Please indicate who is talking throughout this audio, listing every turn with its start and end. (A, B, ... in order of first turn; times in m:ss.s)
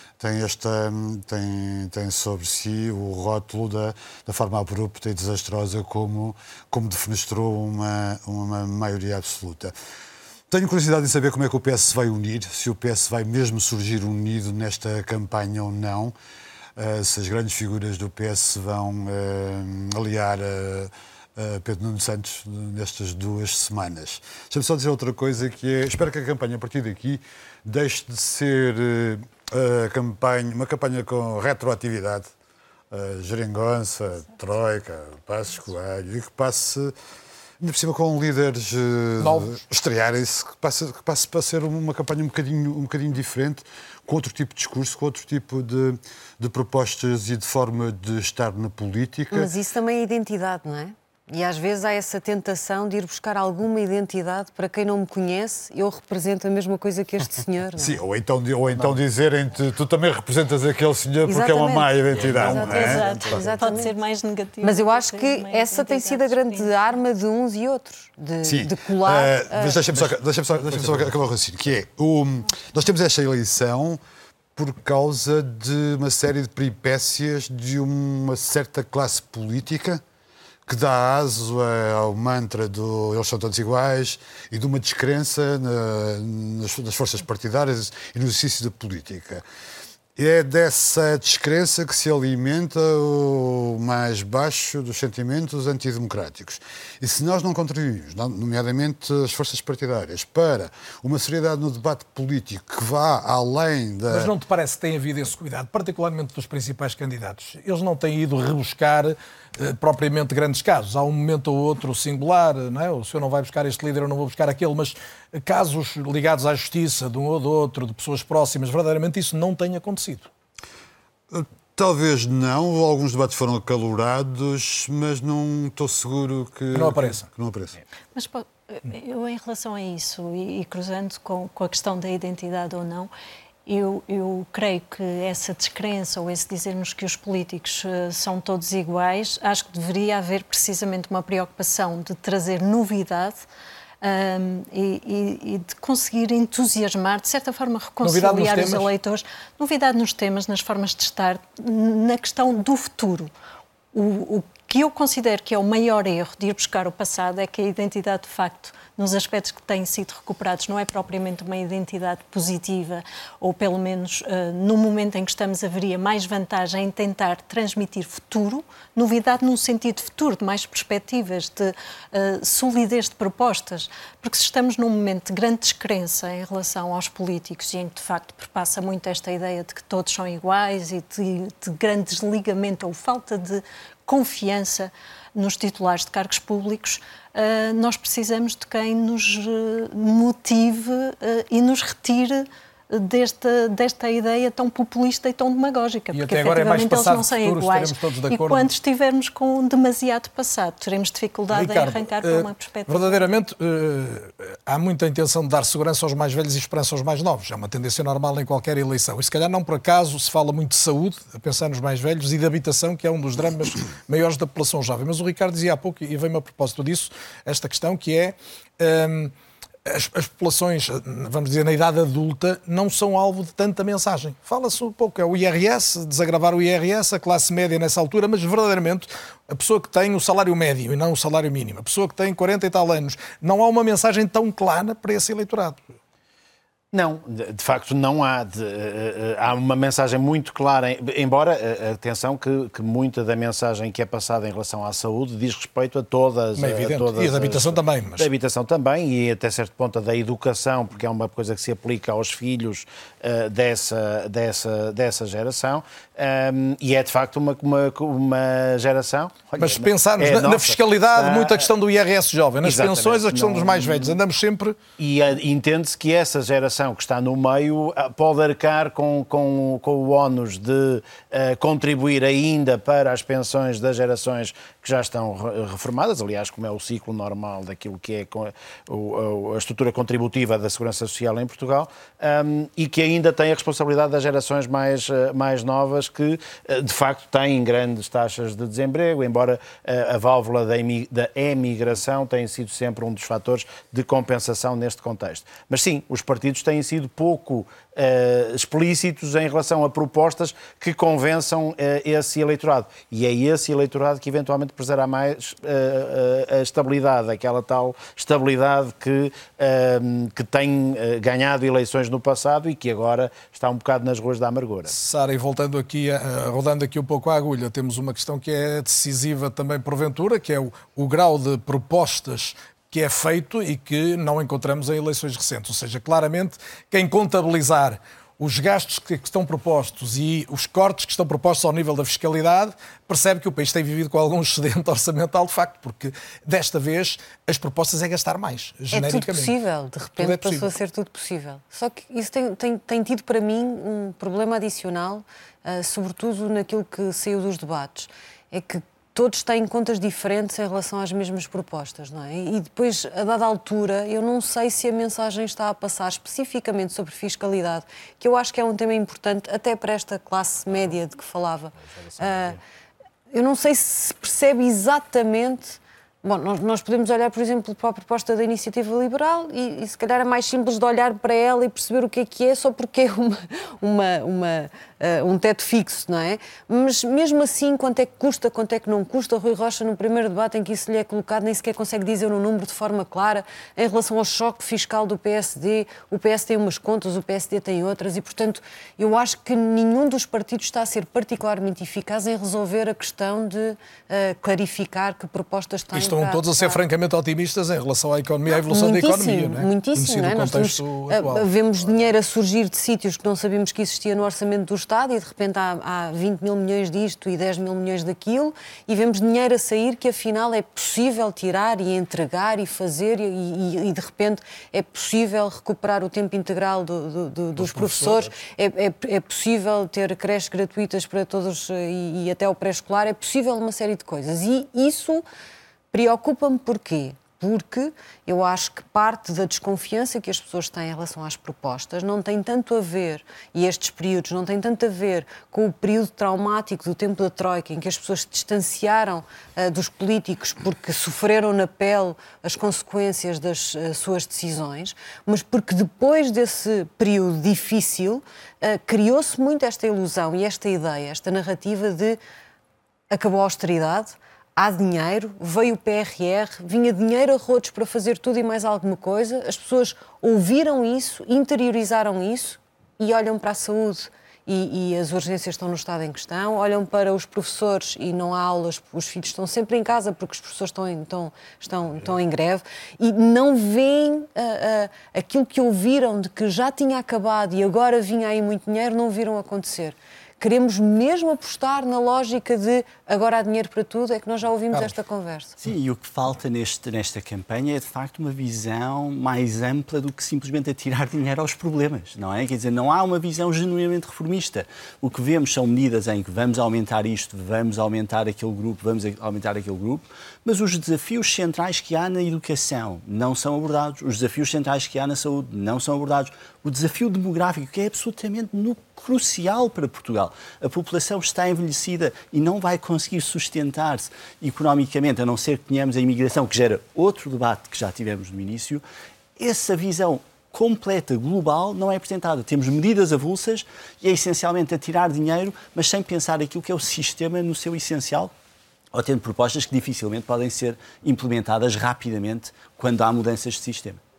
0:00.2-0:09.7 A
0:10.5-0:16.1 A
0:16.8-0:32.3 A
0:32.9-0:36.9 A
0:37.6-0:49.5 A
0:39.2-0:39.6 B
0:49.3-0:58.0 C
0:57.8-1:03.5 A
1:01.2-1:03.9 C
1:02.6-1:06.9 D
1:04.6-1:09.9 C
1:08.4-1:14.0 A
1:10.7-1:11.1 B
1:14.5-1:20.0 A
1:20.6-1:29.4 A
1:30.2-1:44.3 A
1:44.1-2:00.3 B
2:01.3-2:07.8 A
2:06.7-2:07.3 B
2:08.1-2:13.1 D
2:13.6-2:23.4 D
2:24.0-2:33.3 D
2:28.0-2:28.9 B
2:33.9-3:23.2 D
3:16.1-3:18.7 B
3:21.5-3:39.3 B
3:39.8-3:55.9 B
3:56.9-4:21.7 E
4:06.6-4:08.3 B
4:19.6-4:24.8 B
4:22.6-4:24.2 E
4:25.0-5:14.9 E
5:14.9-5:39.5 B
5:38.9-6:02.6 C
5:40.2-5:40.7 B
6:02.0-6:02.6 E
6:03.3-6:36.8 C
6:35.9-6:41.5 B
6:38.5-7:05.2 C
6:57.6-6:58.4 B
7:05.9-7:32.2 C
7:33.1-8:05.6 C
8:05.6-8:38.8 F
8:39.4-8:48.3 F
8:48.9-8:54.0 F